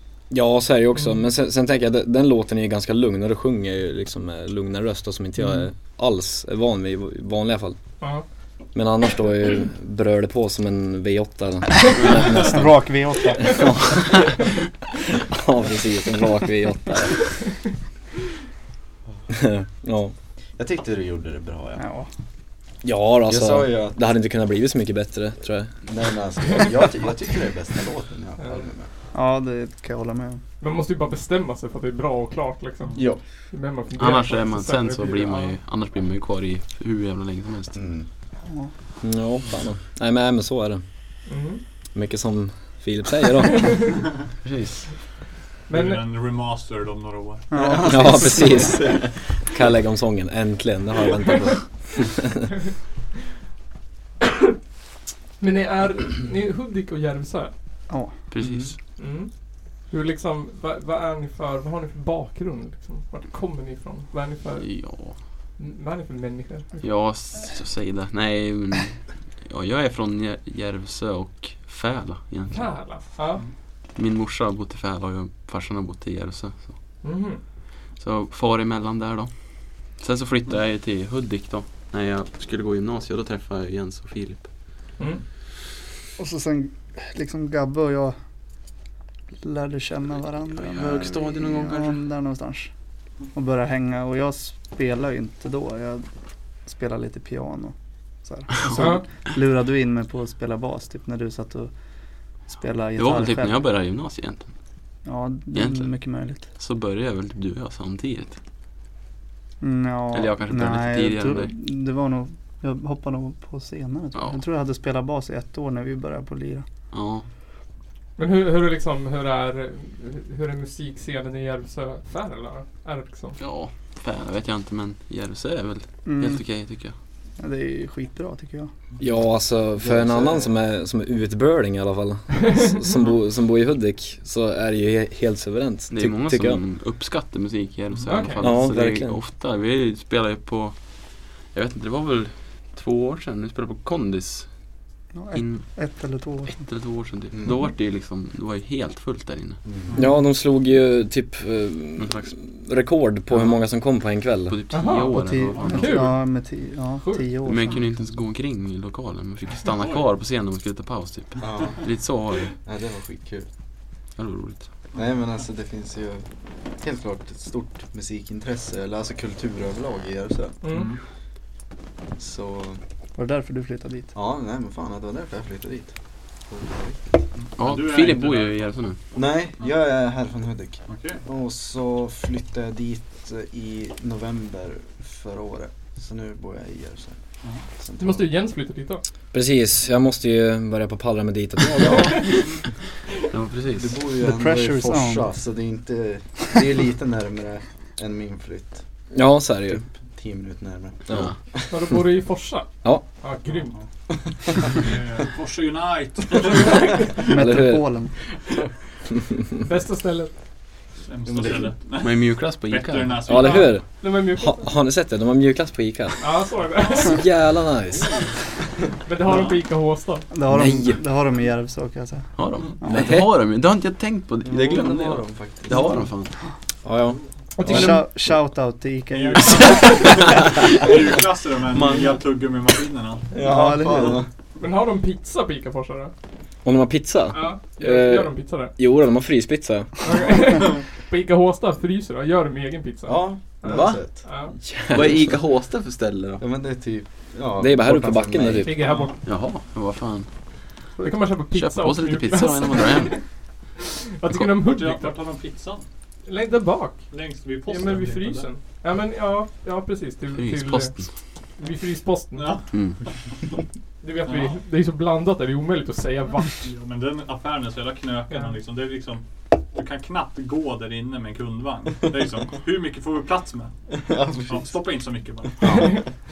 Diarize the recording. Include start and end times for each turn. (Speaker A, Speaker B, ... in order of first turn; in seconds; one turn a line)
Speaker A: 0.3-7.8
Speaker A: 8.8-12.6
Speaker B: 12.4-13.6
Speaker A: 13.4-14.3
Speaker A: 15.2-17.3
Speaker A: 19.3-20.1
Speaker C: 20.6-21.8
Speaker B: 21.8-22.1
Speaker A: 22.8-25.7
Speaker C: 23.3-24.0
Speaker C: 25.9-28.9
Speaker D: 28.4-28.7
Speaker B: 29.1-30.4
Speaker D: 30.6-33.0
Speaker C: 33.0-33.2
Speaker D: 33.5-35.6
Speaker E: 34.0-37.8
Speaker C: 37.8-38.1
Speaker A: 39.0-40.8
Speaker D: 41.3-41.6
Speaker A: 42.0-43.9
Speaker D: 43.6-43.9
Speaker E: 44.4-44.9
Speaker D: 45.7-46.0
Speaker F: 45.7-47.5
Speaker B: 47.5-48.8
Speaker C: 47.6-49.2
Speaker A: 47.8-52.3
Speaker D: 55.4-57.5
Speaker E: 58.3-58.8
Speaker D: 58.8-59.3
Speaker D: 59.9-65.1
Speaker E: 64.6-65.2
Speaker D: 65.6-66.9
Speaker E: 66.8-73.1
Speaker D: 72.5-73.4
Speaker E: 74.0-76.8
Speaker D: 77.0-77.4
Speaker E: 78.0-84.5
Speaker B: 86.2-88.2
Speaker B: 89.4-92.7
Speaker E: 90.6-92.0
Speaker B: 93.3-96.0
Speaker B: 96.7-101.7
Speaker D: 98.8-99.0
Speaker B: 102.5-103.6
Speaker E: 103.0-104.5
Speaker B: 105.0-106.5
Speaker E: 105.5-108.4
Speaker B: 109.6-116.7
Speaker E: 110.1-111.5
Speaker E: 116.9-117.2
Speaker D: 118.2-123.4
Speaker E: 123.4-127.0
Speaker B: 126.1-126.4
Speaker B: 127.4-128.7
Speaker A: 129.0-136.6
Speaker C: 129.8-130.5
Speaker E: 135.9-140.8
Speaker F: 138.0-138.3
Speaker D: 138.1-138.5
Speaker A: 138.4-139.2
Speaker E: 141.5-144.5
Speaker B: 145.1-146.6
Speaker E: 145.3-145.7
Speaker E: 146.5-149.6
Speaker C: 149.7-149.9
Speaker A: 150.0-154.6
Speaker E: 152.0-152.3
Speaker E: 153.3-153.6
Speaker E: 154.5-156.1
Speaker D: 154.7-156.2
Speaker B: 155.1-157.9
Speaker F: 155.6-155.9
Speaker E: 157.4-162.6
Speaker F: 159.7-160.1
Speaker C: 161.4-161.8
Speaker C: 162.7-163.5
Speaker E: 164.2-164.7
Speaker C: 164.9-166.3
Speaker C: 166.8-170.6
Speaker D: 170.6-170.9
Speaker F: 170.7-171.0
Speaker C: 172.2-172.8
Speaker B: 173.2-174.1
Speaker C: 174.1-175.9
Speaker C: 176.5-177.2
Speaker F: 177.4-178.7
Speaker E: 177.6-179.0
Speaker C: 179.2-187.2
Speaker F: 180.9-181.2
Speaker C: 187.8-188.3
Speaker D: 188.0-189.0
Speaker A: 189.3-192.5
Speaker D: 191.9-192.2
Speaker E: 193.3-193.9
Speaker C: 193.8-198.8
Speaker B: 194.2-195.3
Speaker A: 199.1-199.8
Speaker C: 200.1-201.0
Speaker E: 201.1-201.4
Speaker D: 201.7-202.7
Speaker D: 203.2-203.7
Speaker F: 203.5-203.8
Speaker F: 204.7-207.5
Speaker B: 207.3-208.1
Speaker A: 207.3-207.8
Speaker D: 209.6-210.3
Speaker F: 211.1-213.8
Speaker E: 212.0-213.3
Speaker A: 213.3-216.2
Speaker D: 213.4-214.7
Speaker D: 216.2-217.2
Speaker A: 217.0-218.2
Speaker D: 219.1-220.3
Speaker F: 219.2-219.7
Speaker B: 220.3-223.0
Speaker A: 220.5-221.0
Speaker E: 222.4-226.3
Speaker A: 222.9-223.3
Speaker C: 224.5-225.9
Speaker B: 225.7-226.1
Speaker A: 226.8-227.2
Speaker D: 227.6-228.1
Speaker B: 227.6-230.0
Speaker F: 229.1-233.3
Speaker E: 231.8-232.1
Speaker C: 233.3-234.3
Speaker B: 233.4-234.2
Speaker D: 234.6-236.1
Speaker A: 236.6-239.9
Speaker D: 237.3-238.7
Speaker D: 240.0-244.5
Speaker C: 243.1-244.2
Speaker E: 243.7-244.0
Speaker A: 244.6-245.3
Speaker E: 244.9-246.4
Speaker C: 246.4-248.8
Speaker A: 247.6-248.7
Speaker D: 248.6-249.2
Speaker F: 248.8-249.2
Speaker E: 249.2-250.3
Speaker D: 251.0-253.2
Speaker E: 251.5-253.2
Speaker D: 253.8-255.1
Speaker F: 254.6-255.9
Speaker D: 256.3-261.0
Speaker F: 257.1-258.5
Speaker E: 260.3-261.2
Speaker D: 261.6-262.6
Speaker F: 262.3-263.6
Speaker E: 262.7-263.0
Speaker D: 264.0-266.7
Speaker F: 264.2-264.6
Speaker F: 266.6-273.8
Speaker C: 274.0-274.7
Speaker F: 274.4-275.9
Speaker D: 275.7-276.1